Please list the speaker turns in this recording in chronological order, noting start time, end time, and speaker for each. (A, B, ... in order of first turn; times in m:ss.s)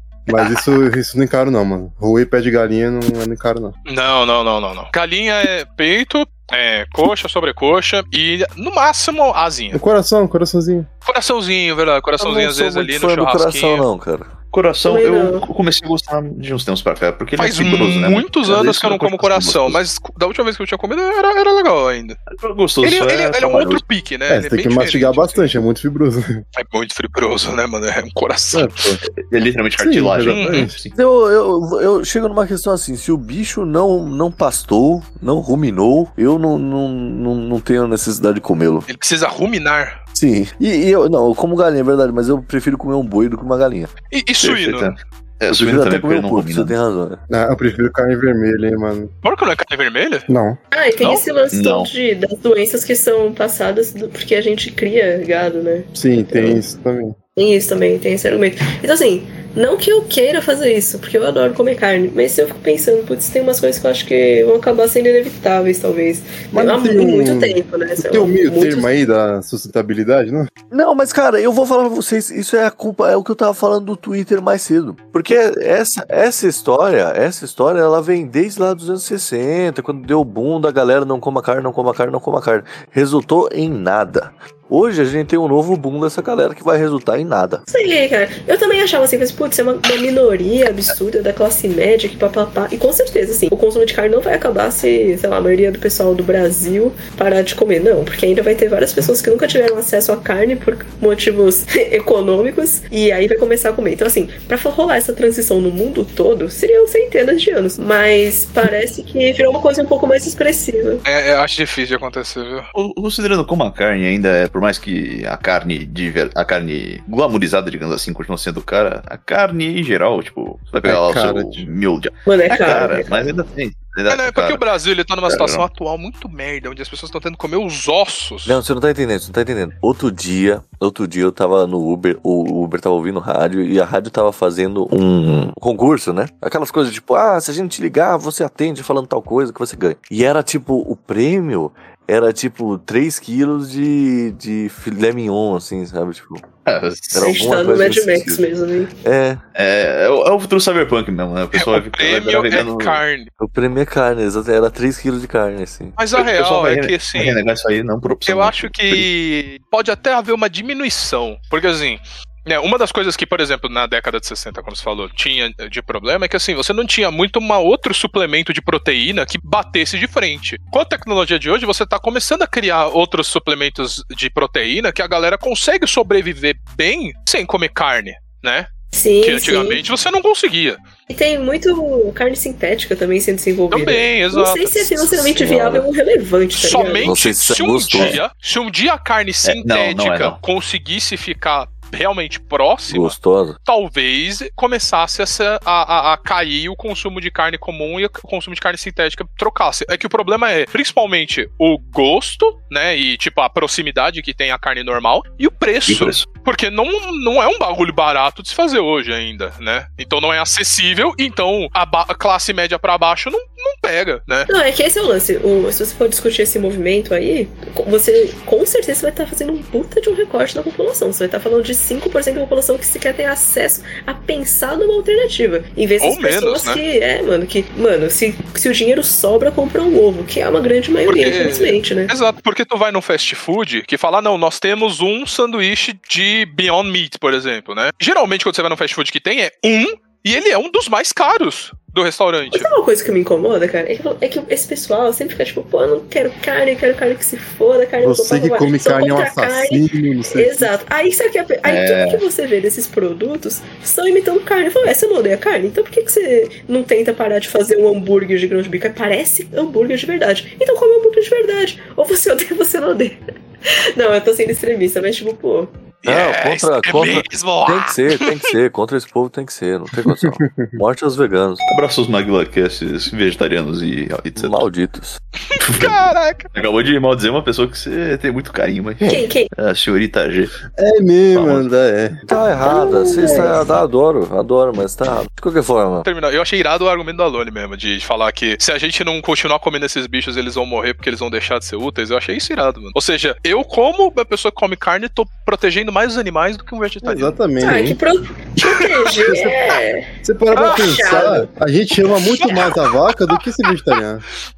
0:00.3-0:03.7 A
0:03.8-0:09.8 B
0:09.7-0:10.9 A
0:11.0-0:13.8 B
0:12.2-0:14.3 C
0:14.5-0:19.8 D
0:14.9-0:15.4 E
0:17.4-0:22.2 B
0:22.3-0:23.8 D
0:22.8-0:25.6 B
0:24.3-0:26.4 A
0:26.6-0:28.9 B
0:28.5-0:29.0 A
0:29.2-0:30.9 D
0:29.8-0:30.7 A
0:30.3-0:30.7 B
0:30.9-0:38.9 C
0:38.9-0:40.0 B
0:40.1-0:43.9 C
0:44.1-0:45.0 B
0:44.4-0:46.8 D
0:45.5-0:47.2 C
0:47.3-0:49.1 A
0:49.2-0:50.3 B
0:50.3-0:50.6 A
0:50.7-0:55.9 E
0:51.0-0:51.2 B
0:51.5-0:51.9 D
0:55.9-0:57.2 A
0:57.4-1:08.9 E
1:06.5-1:10.5 A
1:10.7-1:27.6 C
1:27.7-1:51.0 E
1:51.0-1:52.7 B
1:52.7-2:04.6 D
2:00.8-2:01.7 A
2:02.2-2:03.2 E
2:04.1-2:08.6 B
2:05.3-2:05.6 D
2:08.4-2:26.4 C
2:26.6-2:27.4 D
2:27.1-2:28.4 C
2:27.2-2:28.9 E
2:29.0-2:29.4 C
2:29.5-2:33.0 D
2:31.5-2:33.3 B
2:33.4-2:36.0 C
2:36.0-2:37.4 B
2:36.1-2:39.1 D
2:38.2-2:58.7 B
2:58.9-2:59.8 E
2:59.2-3:00.8 B
3:01.1-3:07.2 E
3:03.7-3:05.1 B
3:05.1-3:05.8 C
3:06.6-3:34.5 B
3:07.0-3:08.2 C
3:07.9-3:08.2 D
3:09.4-3:10.4 D
3:12.9-3:13.6 C
3:25.8-3:26.3 D
3:34.5-3:52.1 E
3:46.0-3:46.8 B
3:51.1-4:02.7 B
4:02.5-4:25.7 E
4:08.0-4:10.8 A
4:11.6-4:12.2 D
4:26.0-4:28.5 B
4:26.0-4:31.6 C
4:30.0-4:30.8 A
4:31.7-4:34.7 D
4:34.4-4:35.2 C
4:35.4-4:36.5 B
4:35.6-4:40.6 D
4:39.0-4:39.2 C
4:39.0-4:39.5 E
4:40.7-4:42.2 A
4:41.3-4:41.7 D
4:42.2-4:46.0 C
4:42.3-4:43.7 E
4:46.0-4:57.4 B
4:57.0-4:58.0 A
4:57.6-5:01.5 E
4:58.6-4:59.2 B
4:59.2-5:04.2 A
5:00.6-5:01.1 B
5:02.3-5:03.4 B